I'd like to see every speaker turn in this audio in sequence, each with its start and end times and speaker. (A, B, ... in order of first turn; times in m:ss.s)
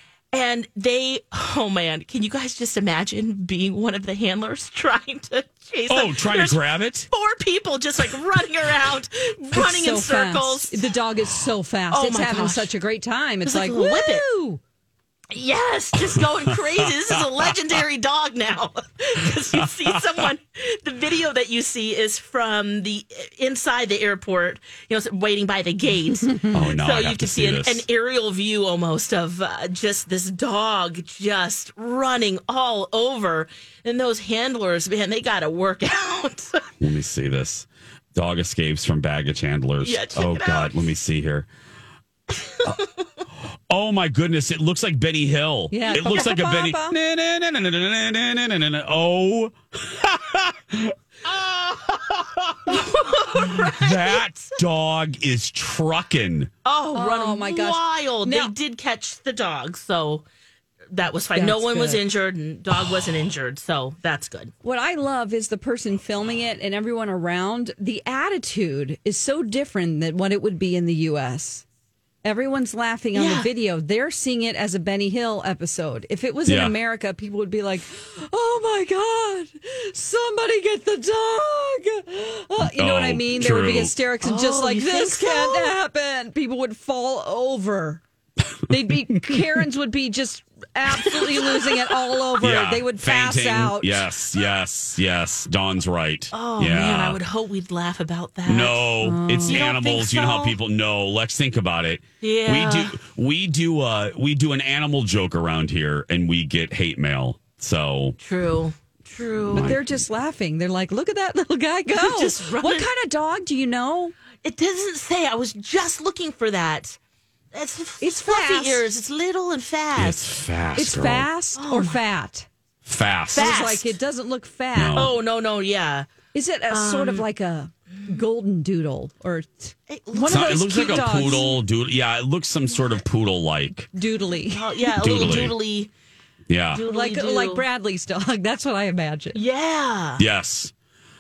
0:00.3-0:10.8 A
0:05.9-0:07.1 B
0:09.5-0:14.6 C
0:11.9-0:12.7 A
0:13.4-0:14.2 A
0:15.3-0:36.6 A
0:26.5-0:27.8 B
0:36.8-0:41.5 B
0:39.8-0:40.8 A
0:43.7-0:52.8 B
0:45.7-0:46.9 C
0:52.7-0:54.2 A
0:53.3-0:56.5 B
0:56.6-1:00.2 A
0:56.9-0:58.5 C
1:00.9-1:04.5 A
1:01.3-1:02.0 C
1:04.6-1:11.6 C
1:12.2-1:28.0 C
1:13.1-1:13.5 A
1:16.5-1:16.7 B
1:22.7-1:23.9 B
1:24.2-1:25.7 A
1:28.7-1:34.0 C
1:32.4-1:37.2 B
1:36.3-1:40.6 A
1:38.5-1:48.2 B
1:39.0-1:39.6 C
1:42.2-1:42.9 A
1:48.2-1:49.7 A
1:49.5-1:49.8 B
1:49.6-1:54.1 C
1:51.9-1:52.9 A
1:54.4-1:57.0 A
1:57.5-2:00.3 A
1:58.0-1:58.8 C
2:00.0-2:01.3 B
2:00.8-2:02.5 C
2:01.6-2:02.0 A
2:02.8-2:03.6 B
2:03.3-2:03.8 A
2:03.3-2:05.0 C
2:04.7-2:05.1 B
2:04.9-2:06.1 A
2:06.3-2:11.5 C
2:06.7-2:07.2 A
2:09.9-2:11.5 A
2:10.2-2:13.9 B
2:13.9-2:14.6 C
2:14.4-2:15.9 A
2:15.0-2:15.5 B
2:16.5-2:16.8 B
2:16.7-2:17.6 A
2:16.8-2:19.4 C
2:19.3-2:20.2 A
2:20.2-2:20.7 B